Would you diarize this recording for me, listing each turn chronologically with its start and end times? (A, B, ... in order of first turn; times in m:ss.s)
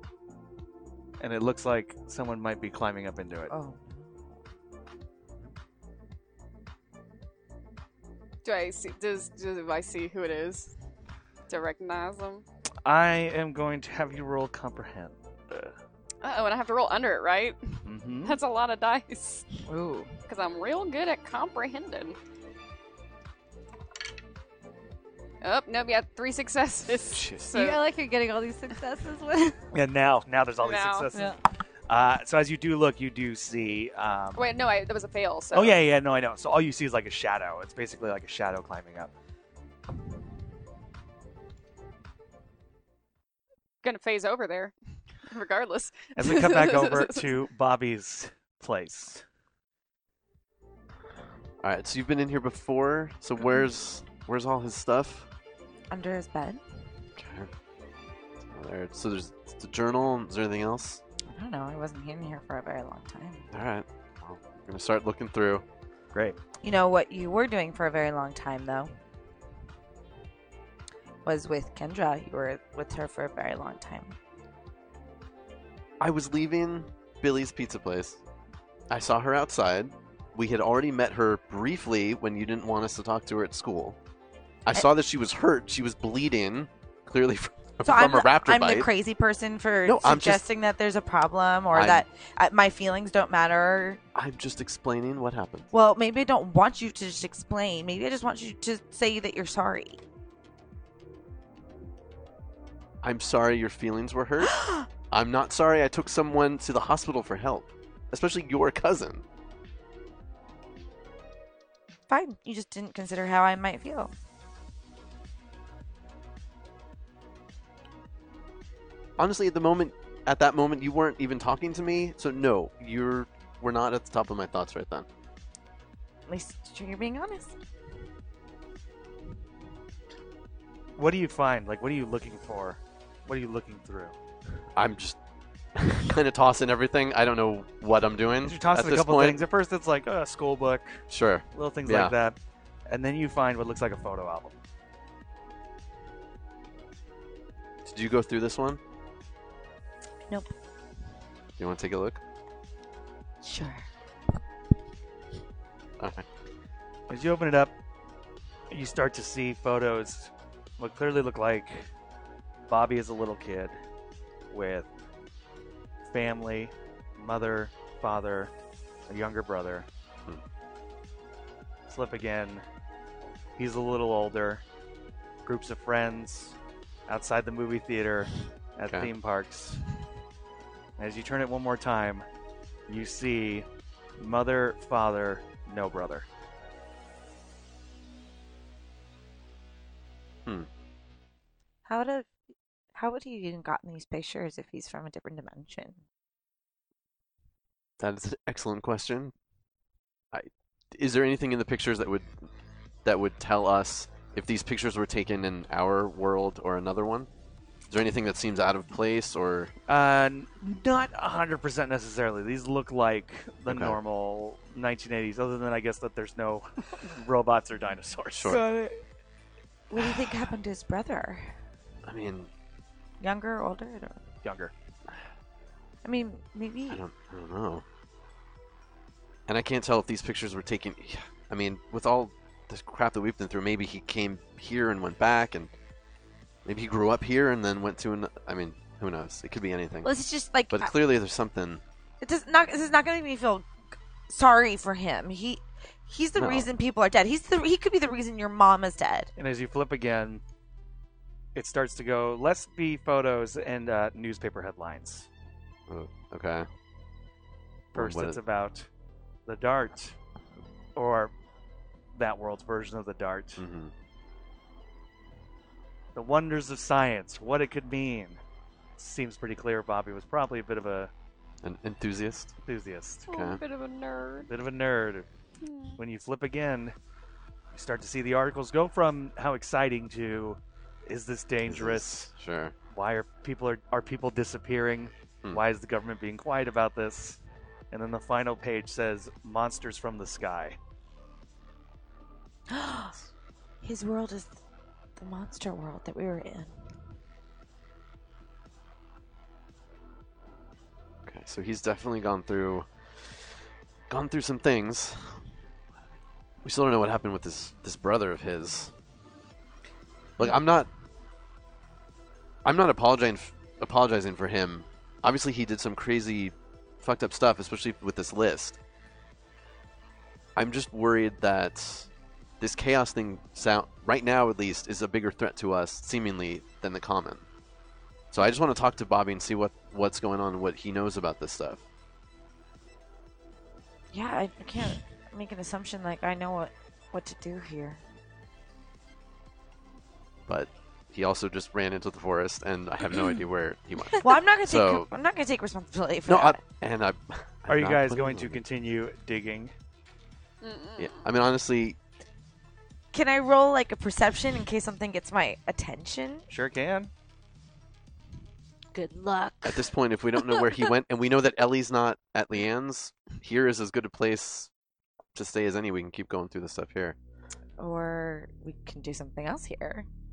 0:01.2-0:03.5 A
0:03.5-0:04.1 B
0:08.4-0:10.7 C
0:11.5-0:12.4 C
0:12.8-0:15.8 A
0:16.2-0:19.5 C
0:17.8-0:18.4 A
0:19.7-0:20.1 B
0:20.3-0:22.2 C
0:25.4-0:27.8 C
0:27.1-0:27.5 D
0:27.5-0:29.6 E
0:29.7-0:31.4 A
0:30.6-0:31.1 C
0:31.9-0:34.5 A
0:34.3-0:35.8 C
0:35.5-0:39.1 A
0:43.8-0:44.7 C
0:45.3-0:47.3 C
0:46.2-0:49.2 A
0:51.6-0:55.2 D
0:55.9-0:56.6 B
0:57.2-0:57.5 D
0:58.4-1:01.0 D
1:01.3-1:03.4 B
1:03.5-1:05.6 D
1:06.6-1:08.9 B
1:11.2-1:14.2 B
1:16.0-1:18.2 D
1:18.9-1:24.0 D
1:24.6-1:28.9 D
1:27.8-1:34.0 B
1:29.8-1:30.4 D
1:31.7-1:32.0 D
1:34.1-1:35.7 D
1:35.7-1:40.0 B
1:43.0-1:44.6 D
1:44.6-1:44.8 B
1:45.1-1:49.2 D
1:52.1-1:54.1 B
1:59.2-2:05.0 D
2:06.3-2:07.5 B
2:11.0-2:14.1 A
2:14.7-2:15.2 D
2:15.7-2:19.4 D
2:18.4-2:22.4 A
2:21.1-2:22.1 D
2:22.9-2:24.6 A
2:27.8-2:28.8 D
2:31.6-2:32.2 D
2:33.4-2:33.8 B
2:36.0-2:36.2 D
2:37.1-2:37.7 A
2:38.7-2:41.9 A
2:42.7-2:43.8 A
2:44.5-2:44.9 A
2:46.0-2:48.5 A
2:49.1-2:49.9 A
2:51.9-2:52.6 A
2:53.6-2:54.6 A
2:55.4-2:56.6 A
2:57.1-2:59.8 A
3:01.0-3:02.2 A
3:02.9-3:03.7 A
3:04.2-3:06.3 A
3:11.9-3:12.3 B
3:12.9-3:16.0 B
3:18.0-3:19.3 D
3:20.3-3:22.3 D
3:23.0-3:27.3 D
3:27.9-3:29.7 D
3:29.9-3:38.6 A
3:33.7-3:34.0 D
3:38.4-3:38.6 D
3:38.5-3:39.0 B
3:39.9-3:41.5 B
3:42.0-3:42.5 D
3:43.2-3:44.2 B
3:44.4-3:44.7 A
3:46.0-3:47.0 B
3:46.9-3:47.8 D
3:49.5-3:55.7 D
3:56.6-4:00.1 D
4:00.0-4:01.0 B
4:00.7-4:01.8 D
4:02.2-4:03.7 B
4:04.3-4:09.3 B
4:06.4-4:06.7 D
4:09.4-4:10.4 A
4:11.5-4:15.3 A
4:15.9-4:16.7 D
4:17.9-4:18.4 D
4:17.9-4:18.9 A
4:19.4-4:20.2 A
4:20.9-4:21.3 A
4:22.1-4:23.6 A
4:23.6-4:23.9 D
4:26.1-4:28.4 A
4:29.0-4:31.1 A
4:31.6-4:32.5 D
4:32.6-4:33.3 A
4:33.3-4:34.5 C
4:33.3-4:33.6 D
4:34.5-4:35.3 A
4:35.6-4:36.0 C
4:36.0-4:37.0 A
4:37.7-4:42.3 A
4:41.7-4:42.7 D
4:42.9-4:47.4 A
4:47.9-4:50.8 A
4:52.7-4:53.1 B
4:53.8-4:54.6 B
4:55.2-4:56.7 B
5:01.2-5:03.4 D
5:04.1-5:05.3 D
5:06.6-5:08.9 D
5:10.4-5:10.9 D
5:12.6-5:18.8 D
5:20.6-5:22.1 D
5:22.6-5:27.4 D
5:28.3-5:31.8 D
5:34.1-5:38.0 B
5:40.5-5:45.1 D
5:44.2-5:46.6 B
5:46.3-5:48.6 D
5:47.7-5:49.7 A
5:50.6-5:51.2 C
5:51.0-5:52.0 D
5:53.1-5:56.4 B
5:56.5-5:57.1 A
5:58.9-6:00.4 E
5:59.6-6:04.7 D
6:05.3-6:07.2 D
6:07.8-6:10.0 B